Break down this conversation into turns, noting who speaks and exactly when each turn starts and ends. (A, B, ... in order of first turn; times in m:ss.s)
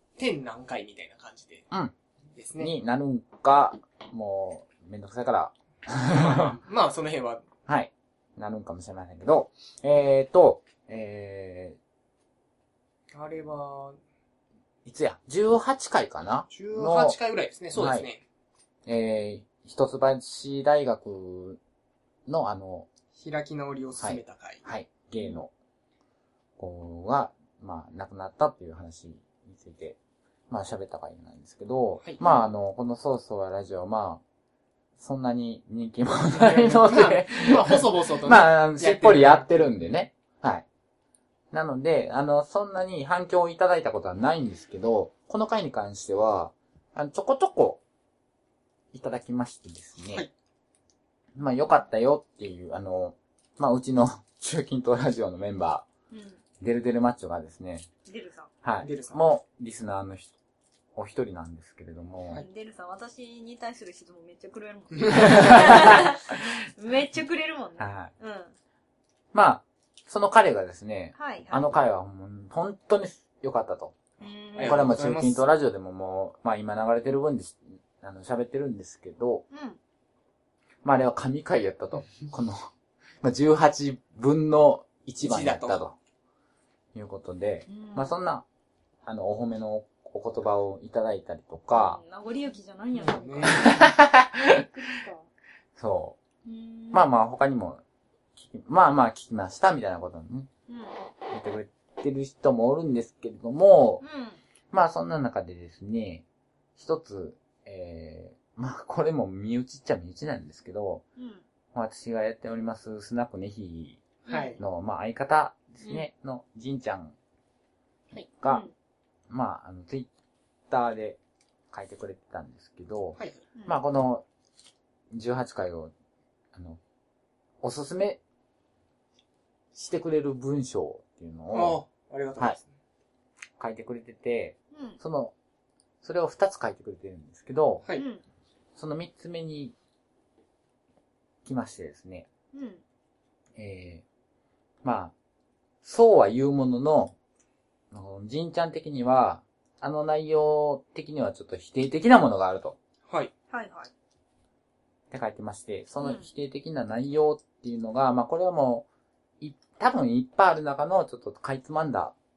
0:00.2-0:01.7 A
0:02.3-0:02.7 A
0:02.6-0:06.4 B
0:06.1-0:07.5 A
0:07.7-0:11.8 B
0:13.1-0:14.0 A
0:14.8-0:17.2 B
0:16.5-0:18.2 A
0:17.7-0:18.1 B
0:18.9-0:21.6 B
0:22.3-0:22.9 B
0:23.1-0:24.6 A
0:24.0-0:25.5 B
0:26.6-0:30.0 B
0:30.5-0:34.2 B
0:32.0-0:32.3 A
0:35.0-0:40.7 B
0:36.3-0:39.7 A
0:41.5-0:47.8 B
0:48.9-0:50.3 B
0:51.4-0:55.8 B
0:56.1-0:56.4 C
0:56.6-0:57.9 B
0:58.1-0:58.5 C
0:58.6-1:00.3 B
0:58.8-0:59.2 A
1:01.0-1:02.4 B
1:02.4-1:08.5 C
1:05.3-1:06.0 B
1:07.8-1:08.1 B
1:09.3-1:14.0 B
1:11.2-1:11.8 C
1:14.2-1:14.9 C
1:14.6-1:15.5 A
1:14.6-1:19.4 B
1:19.5-1:19.8 C
1:20.8-1:26.0 B
1:25.2-1:25.8 A
1:26.9-1:28.4 B
1:27.7-1:28.2 C
1:29.0-1:32.0 B
1:31.7-1:33.9 C
1:32.9-1:33.7 A
1:33.4-1:34.6 B
1:34.7-1:35.3 C
1:35.8-1:36.2 B
1:36.4-1:37.1 C
1:36.9-1:37.8 B
1:38.4-1:40.5 B
1:40.7-1:41.0 C
1:41.3-1:44.0 B
1:44.0-1:44.4 C
1:44.7-1:46.2 B
1:46.8-1:51.0 B
1:51.2-1:51.4 C
1:51.7-1:54.0 B
1:54.3-1:54.6 A
1:54.3-1:54.6 C
1:54.6-1:57.2 B
1:58.2-1:58.6 B
1:58.4-1:58.7 C
1:59.3-2:00.1 B
2:00.7-2:01.2 B
2:01.7-2:04.3 B
2:03.2-2:03.4 A
2:05.1-2:05.9 B
2:06.5-2:06.8 B
2:07.6-2:08.2 B
2:09.7-2:11.8 B
2:11.5-2:12.7 A
2:13.6-2:15.3 B
2:14.7-2:15.0 C
2:16.0-2:17.8 B
2:18.0-2:18.2 C
2:18.8-2:19.7 B
2:21.4-2:22.3 B
2:22.5-2:22.8 C
2:23.6-2:24.0 B
2:24.8-2:25.1 B
2:25.8-2:27.2 B
2:27.9-2:32.8 B
2:33.5-2:33.9 C
2:35.1-2:38.9 B
2:36.0-2:36.3 C
2:39.4-2:42.1 B